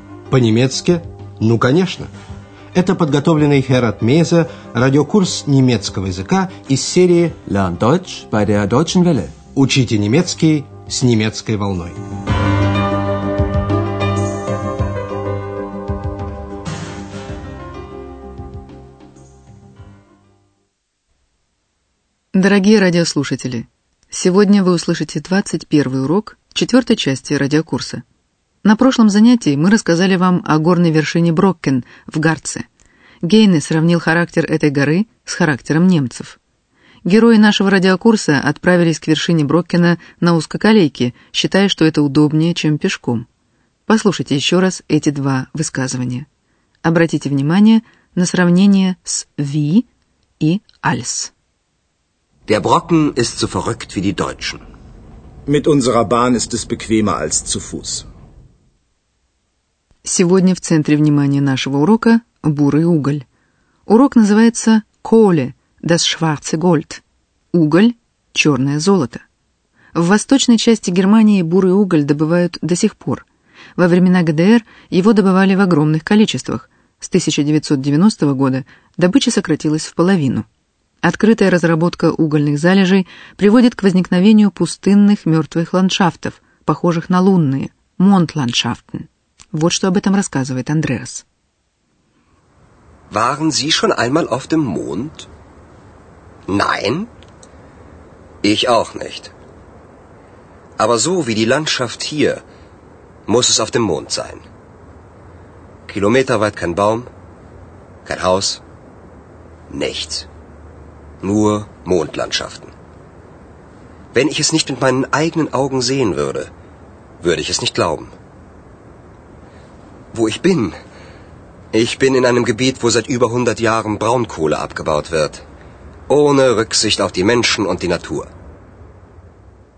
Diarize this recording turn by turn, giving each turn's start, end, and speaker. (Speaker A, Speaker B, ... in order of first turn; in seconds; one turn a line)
Speaker A: 0.3-2.1
Speaker A: 2.7-7.4
Speaker B: 7.5-9.4
Speaker A: 9.5-12.0
Speaker C: 22.3-28.0
Speaker C: 28.6-32.7
Speaker C: 33.2-36.4
Speaker C: 37.0-43.3
Speaker C: 43.9-46.3
Speaker C: 46.8-49.9
Speaker C: 50.4-51.3
Speaker D: 52.5-54.6
Speaker E: 55.5-58.0
Speaker C: 60.0-63.2
Speaker C: 63.9-67.0
Speaker C: 67.5-69.2
Speaker C: 69.9-80.5
Speaker C: 81.0-91.2
Speaker D: 93.1-95.3
Speaker D: 96.5-97.1
Speaker D: 98.4-99.3
Speaker D: 100.8-102.4
Speaker D: 103.3-104.4
Speaker D: 105.9-107.1
Speaker D: 108.0-108.6
Speaker D: 109.7-110.3
Speaker D: 111.2-112.7
Speaker D: 114.1-116.5
Speaker D: 117.2-118.1
Speaker D: 120.1-120.8
Speaker D: 121.7-125.4
Speaker D: 126.1-128.3